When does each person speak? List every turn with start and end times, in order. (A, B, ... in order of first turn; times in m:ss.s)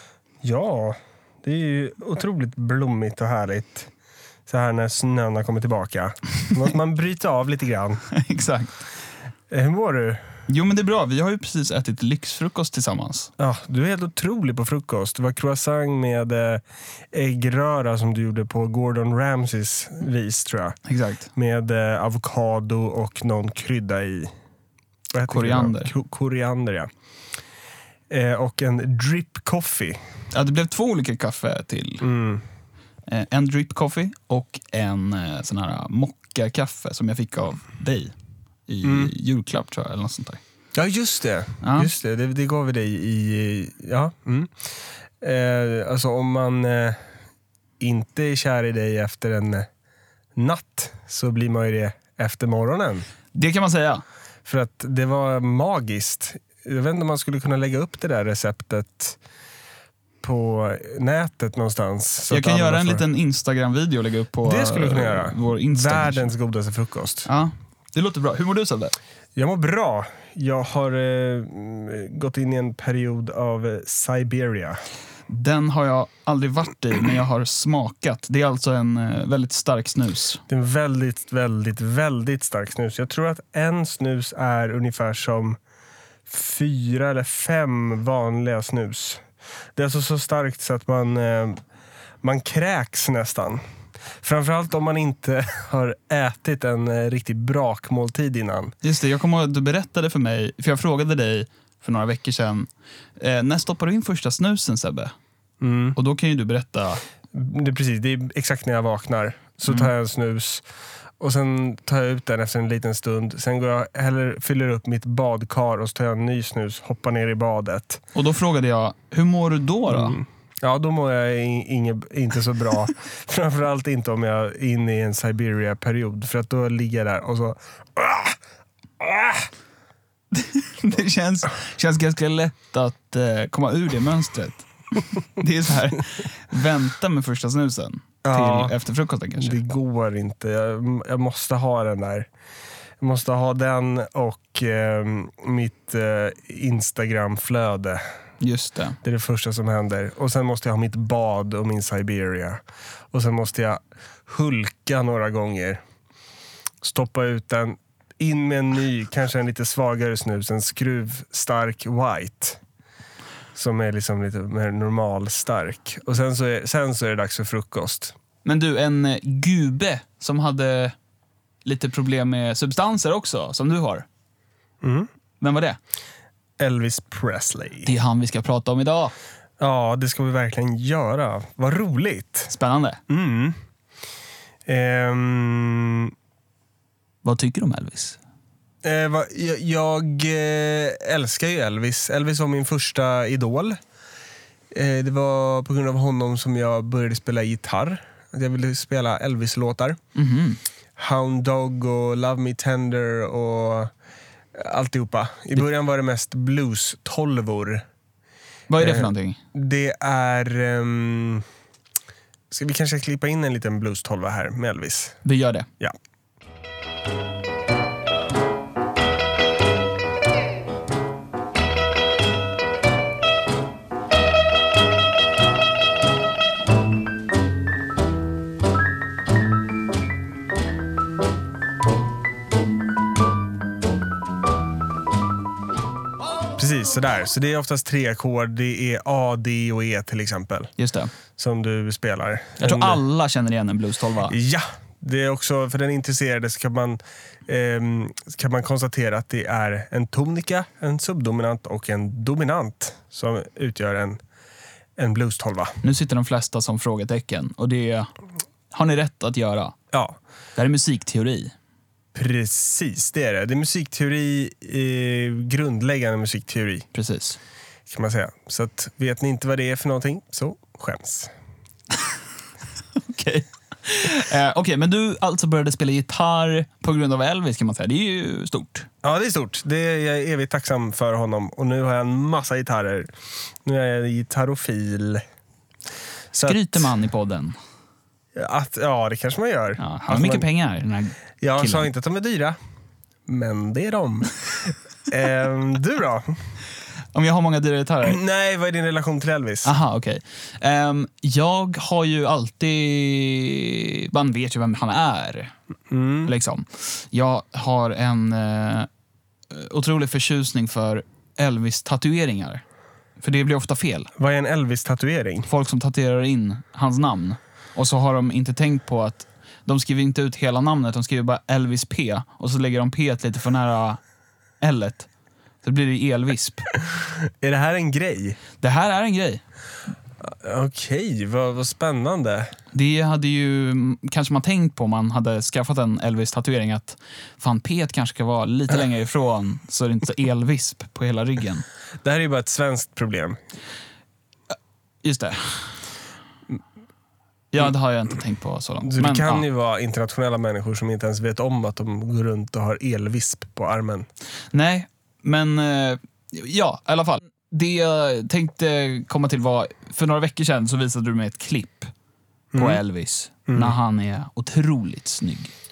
0:00.4-0:03.9 A
0:04.5-0:08.0 A
0:08.1-0:08.9 B
0:09.5-0:10.3 A
0:10.5-0:13.3 B
0:13.4-0:20.8 A
0:20.9-0:21.3 B
0:21.4-0:24.3 A
0:25.1-0:26.9 A
0:25.3-0:25.9 B
0:28.1-0:30.0 A
0:30.3-0:32.1 B
0:32.0-0:32.4 A
0:33.1-0:38.1 B
0:38.7-0:40.4 B
0:38.8-0:39.1 A
0:40.7-0:44.5 A
0:41.6-0:41.9 B
0:45.2-0:47.0 A
0:47.8-0:49.7 A
0:50.4-0:53.1 A
0:53.3-0:54.0 B
0:54.5-0:59.2 A
1:00.2-1:03.0 A
1:02.3-1:06.3 B
1:04.4-1:07.3 A
1:07.3-1:09.0 B
1:09.4-1:14.8 A
1:15.3-1:20.4 B
1:20.5-1:25.6 A
1:26.3-1:29.2 A
1:29.8-1:31.6 A
1:32.2-1:33.6 A
1:34.2-1:38.8 A
1:38.8-1:45.1 B
1:45.6-1:46.0 A
1:46.0-1:47.0 B
1:47.3-1:50.6 A
1:51.2-1:58.0 A
1:58.2-2:00.2 B
1:59.9-2:08.4 A
2:09.0-2:09.5 A
2:10.3-2:19.6 B
2:18.2-2:18.8 A
2:19.4-2:22.3 A
2:23.0-2:28.0 A
2:28.4-2:29.0 B
2:29.0-2:35.8 A
2:36.8-2:42.6 A
2:43.6-2:48.2 A
2:48.4-2:51.0 B
2:51.6-2:54.1 B
2:54.8-2:55.1 A
2:55.4-2:55.8 B
2:56.6-2:57.9 A
2:57.8-2:59.1 B
2:59.6-3:02.5 A
3:02.5-3:03.0 B
3:03.1-3:03.6 A
3:04.7-3:06.1 A
3:07.2-3:08.2 B
3:08.8-3:13.8 A
3:14.7-3:20.0 A
3:20.2-3:20.6 B
3:21.0-3:23.9 A
3:24.5-3:27.8 A
3:28.7-3:29.4 B
3:28.8-3:31.5 A
3:32.5-3:35.2 A
3:35.2-3:35.7 B
3:56.6-4:00.7 A
4:00.8-4:01.1 B
4:01.4-4:03.0 A
4:02.6-4:04.4 B
4:04.2-4:14.2 A
4:15.0-4:15.8 A
4:15.8-4:18.1 B
4:18.7-4:19.8 B
4:19.9-4:20.2 A
4:20.6-4:21.5 B
4:22.1-4:26.9 A
4:26.9-4:27.4 B
4:27.9-4:31.3 A
4:33.0-4:38.9 B
4:39.0-4:43.1 A
4:43.6-4:45.2 A
4:46.3-4:46.9 A
4:46.4-4:47.6 B
4:48.4-4:50.5 A
4:49.8-4:51.9 B
4:51.4-4:52.6 A
4:53.3-4:56.4 A
4:57.1-4:58.2 B
4:58.0-4:59.7 A
4:59.6-5:05.5 B
5:05.9-5:06.3 A
5:06.3-5:08.9 B
5:09.5-5:12.6 B
5:13.2-5:14.1 B
5:14.2-5:15.5 A
5:15.5-5:24.0 B
5:24.6-5:25.1 B
5:25.6-5:26.7 B
5:27.4-5:28.4 A
5:28.6-5:29.4 B
5:30.2-5:32.5 A
5:32.7-5:41.7 B
5:42.0-5:43.4 A
5:45.0-5:45.8 B
5:47.5-5:49.4 B
5:48.8-5:54.1 A
5:54.5-6:01.9 B
6:02.5-6:02.8 A
6:02.6-6:05.5 B
6:03.5-6:03.8 A